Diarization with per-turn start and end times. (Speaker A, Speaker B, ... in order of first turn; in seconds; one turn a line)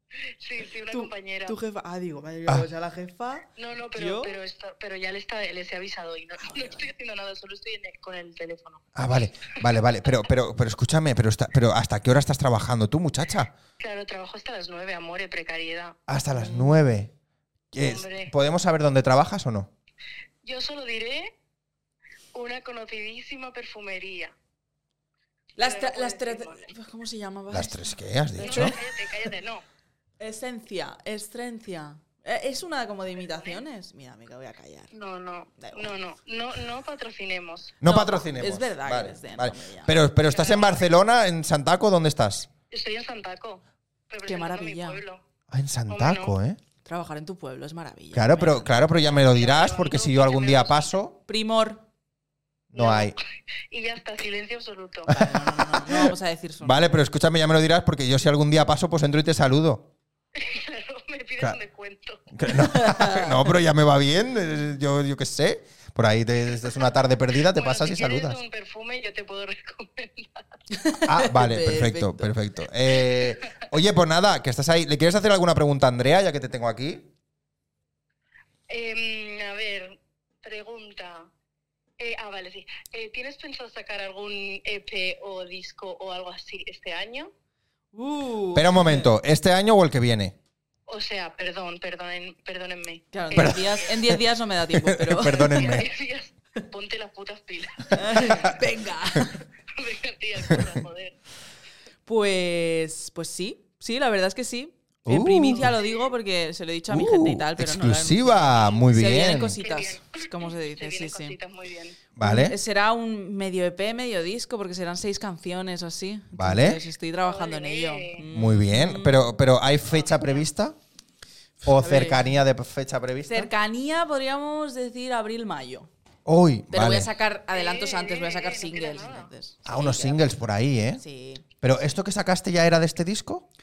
Speaker A: 0.4-1.6
Speaker B: 0.9-4.4
Speaker A: 3.6-8.9
Speaker B: 6.4-6.9
Speaker C: 8.9-13.5
Speaker A: 13.8-16.0
Speaker C: 16.1-17.1
Speaker B: 16.3-16.8
Speaker C: 17.7-19.7
Speaker A: 17.8-18.3
Speaker A: 20.4-21.3
Speaker A: 22.3-24.3
Speaker A: 25.6-26.6
Speaker B: 25.6-29.0
Speaker C: 27.5-28.8
Speaker A: 28.4-29.6
Speaker B: 30.2-34.9
Speaker A: 34.9-37.8
Speaker B: 35.6-35.9
Speaker C: 37.8-42.5
Speaker B: 37.8-40.0
Speaker A: 40.3-40.9
Speaker A: 42.7-45.2
Speaker B: 44.2-45.0
Speaker C: 45.5-46.6
Speaker A: 45.9-46.3
Speaker B: 46.8-48.8
Speaker C: 48.1-51.1
Speaker A: 49.0-51.0
Speaker B: 51.3-51.8
Speaker C: 52.7-53.1
Speaker A: 52.7-53.1
Speaker A: 53.7-55.1
Speaker C: 55.1-59.9
Speaker B: 55.1-56.9
Speaker A: 60.4-62.3
Speaker C: 62.3-68.4
Speaker B: 62.6-63.4
Speaker A: 67.4-70.4
Speaker B: 70.7-72.3
Speaker C: 71.0-77.1
Speaker A: 78.7-81.3
Speaker A: 82.0-87.3
Speaker B: 87.9-89.1
Speaker C: 88.5-90.3
Speaker A: 90.9-93.7
Speaker B: 93.1-95.7
Speaker C: 93.3-95.9
Speaker A: 95.4-98.5
Speaker B: 97.9-99.4
Speaker C: 98.0-98.6
Speaker A: 99.7-101.2
Speaker B: 102.0-111.4
Speaker C: 105.0-105.7
Speaker C: 106.9-109.6
Speaker A: 109.4-112.0
Speaker C: 112.2-112.5
Speaker B: 112.2-119.3
Speaker C: 116.3-116.8
Speaker A: 117.2-118.3
Speaker C: 118.3-120.8
Speaker B: 121.6-122.4
Speaker C: 121.6-123.5
Speaker B: 123.3-125.9
Speaker C: 126.2-127.1
Speaker B: 126.7-130.2
Speaker A: 127.5-129.3
Speaker C: 129.6-131.0
Speaker B: 131.0-131.4
Speaker C: 131.6-133.4